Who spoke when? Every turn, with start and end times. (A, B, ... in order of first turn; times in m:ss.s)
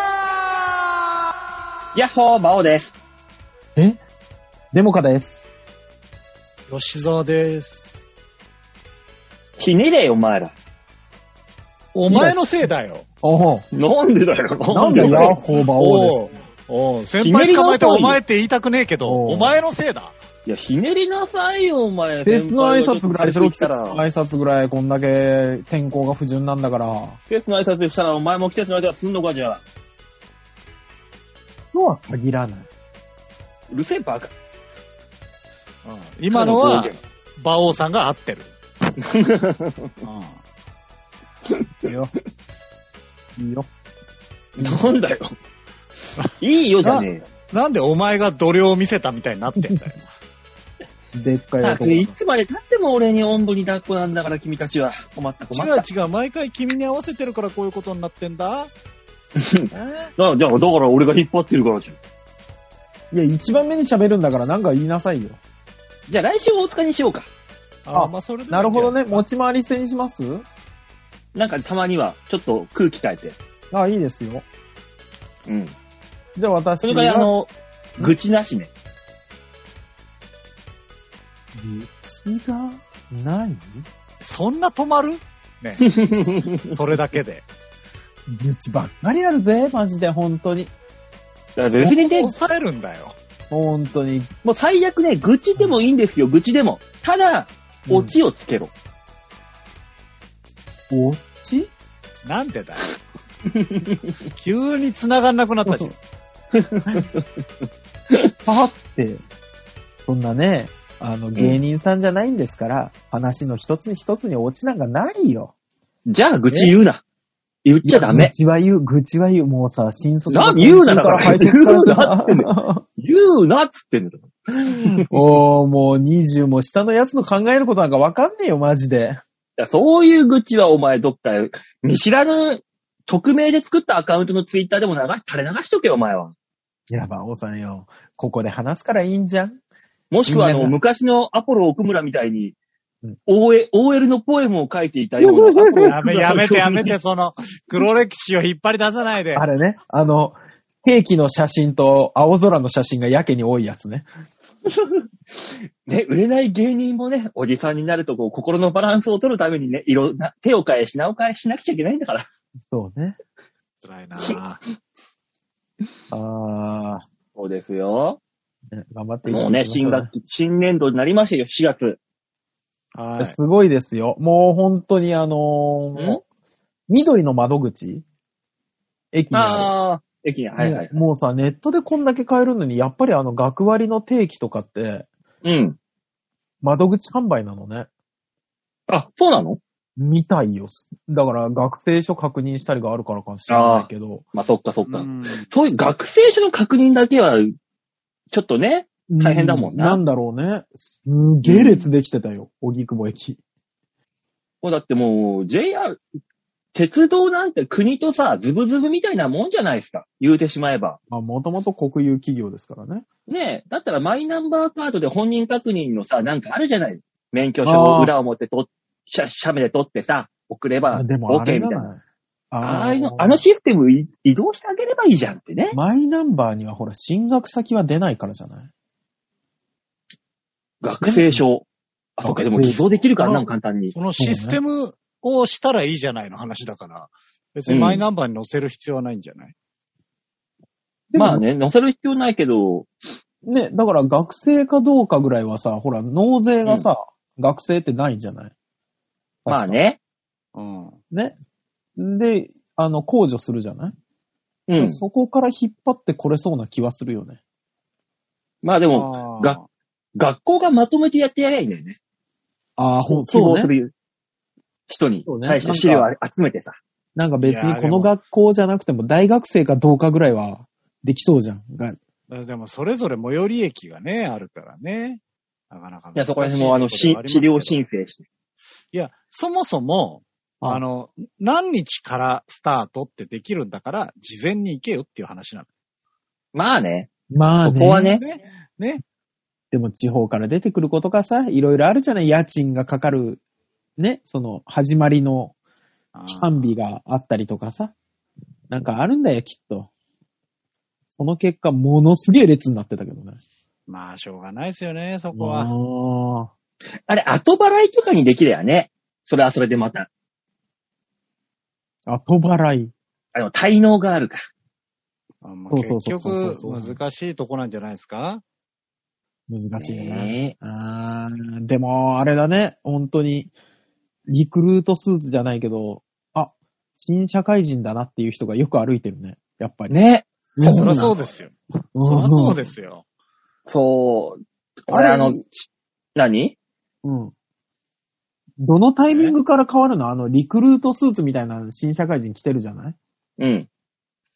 0:01.9-0:03.0 A
0:04.7-0:05.5 B
0:06.7-0:08.1 C
0:09.6-0:10.6 A
0:11.9-0:13.1 C
0:12.1-0:12.7 B
0:13.2-0:13.6 B
0:13.7-0:15.4 A
0:14.7-0:16.2 B
0:15.1-0:20.2 C
0:17.2-0:18.2 A
0:19.0-0:19.6 B
0:20.5-0:24.0 A
0:22.2-0:27.2 B
0:27.3-0:29.6 A
0:31.7-0:32.7 B
0:33.7-0:34.3 A
0:35.8-0:38.5 C
0:36.3-0:37.0 A
0:39.0-0:39.9 A
0:40.0-0:40.4 C
0:41.4-0:41.9 A
0:41.8-0:42.1 B
0:43.4-0:43.7 B
0:44.6-0:45.4 A
0:44.6-0:44.9 B
0:46.4-0:47.3 A
0:46.8-0:50.0 C
0:51.1-0:52.2 B
0:51.6-0:55.9 A
0:55.5-0:58.7 C
0:59.4-1:02.0 A
1:03.1-1:05.4 B
1:06.1-1:07.3 A
1:07.9-1:09.2 C
1:07.9-1:10.4 B
1:11.4-1:13.4 A
1:13.7-1:14.5 B
1:15.5-1:15.8 A
1:16.4-1:17.3 B
1:16.8-1:18.7 A
1:21.6-1:23.9 B
1:24.2-1:25.9 C
1:25.8-1:26.7 A
1:26.7-1:27.4 C
1:28.3-1:30.7 B
1:31.6-1:32.3 A
1:31.8-1:33.2 C
1:33.5-1:34.3 B
1:34.4-1:38.7 A
1:37.9-1:38.1 B
1:40.9-1:41.7 B
1:42.2-1:43.0 C
1:43.5-1:44.1 A
1:44.4-1:46.0 C
1:45.7-1:45.9 B
1:46.5-1:47.3 A
1:48.4-1:49.2 B
1:50.1-1:55.5 B
1:56.1-1:57.0 A
1:57.6-1:58.3 A
1:57.8-2:02.8 B
2:00.3-2:05.0 A
2:04.7-2:09.2 B
2:09.6-2:16.3 A
2:16.9-2:19.6 B
2:20.1-2:22.6 A
2:20.3-2:20.8 B
2:23.3-2:26.9 A
2:25.2-2:26.0 B
2:25.9-2:29.4 C
2:29.4-2:34.1 B
2:34.7-2:42.3 A
2:42.7-2:43.2 B
2:43.8-2:44.6 C
2:46.1-2:47.0 B
2:47.4-2:48.2 A
2:48.7-2:50.1 B
2:49.3-2:52.0 A
2:53.0-2:53.4 C
2:53.2-2:56.2 B
2:56.0-2:56.2 A
2:56.9-2:58.0 B
2:59.1-2:59.7 B
2:59.3-3:01.0 A
3:00.6-3:05.1 B
3:05.4-3:05.8 A
3:06.6-3:07.9 B
3:08.9-3:09.6 A
3:10.0-3:14.2 B
3:13.5-3:17.6 A
3:14.9-3:15.5 C
3:18.3-3:20.0 A
3:19.1-3:23.4 B
3:21.4-3:21.9 A
3:24.6-3:26.0 A
3:26.7-3:31.0 A
3:31.1-3:33.0 B
3:33.3-3:41.9 A
3:37.6-3:38.1 B
3:40.9-3:43.4 B
3:42.6-3:45.8 A
3:45.7-3:48.7 B
3:50.8-3:54.0 A
3:51.0-3:51.4 B
3:52.2-3:52.8 B
3:52.9-3:59.5 C
3:54.2-3:54.6 B
3:57.7-3:58.0 A
4:01.1-4:01.4 B
4:01.2-4:02.9 A
4:03.4-4:08.5 B
4:09.4-4:09.8 B
4:09.5-4:10.0 A
4:10.6-4:11.0 C
4:11.1-4:11.4 B
4:12.0-4:14.0 B
4:14.7-4:15.0 A
4:14.8-4:17.4 B
4:18.6-4:19.6 A
4:18.9-4:19.7 C
4:20.2-4:22.0 A
4:22.8-4:23.7 B
4:23.0-4:23.9 A
4:24.9-4:26.8 A
4:25.3-4:26.1 B
4:27.2-4:32.0 B
4:27.4-4:28.1 C
4:32.3-4:37.8 C
4:36.2-4:38.2 A
4:38.9-4:45.7 C
4:46.6-4:47.1 A
4:47.3-4:48.2 B
4:47.6-4:48.2 A
4:48.0-4:49.0 C
4:49.7-4:53.4 B
4:54.0-4:55.5 B
4:56.1-4:56.7 C
4:56.3-4:57.9 B
4:58.7-4:59.9 B
5:01.1-5:03.4 B
5:03.9-5:05.7 C
5:05.4-5:06.5 B
5:07.1-5:10.1 A
5:12.1-5:12.9 B
5:13.3-5:14.4 A
5:15.4-5:18.4 C
5:15.7-5:17.0 B
5:19.5-5:23.5 B
5:19.8-5:20.5 A
5:24.3-5:29.9 B
5:29.9-5:31.2 A
5:30.6-5:31.1 B
5:30.7-5:33.0 C
5:32.0-5:32.6 B
5:33.7-5:36.6 A
5:34.9-5:35.4 B
5:37.0-5:37.3 B
5:38.6-5:43.0 B
5:39.1-5:39.4 C
5:43.4-5:43.7 A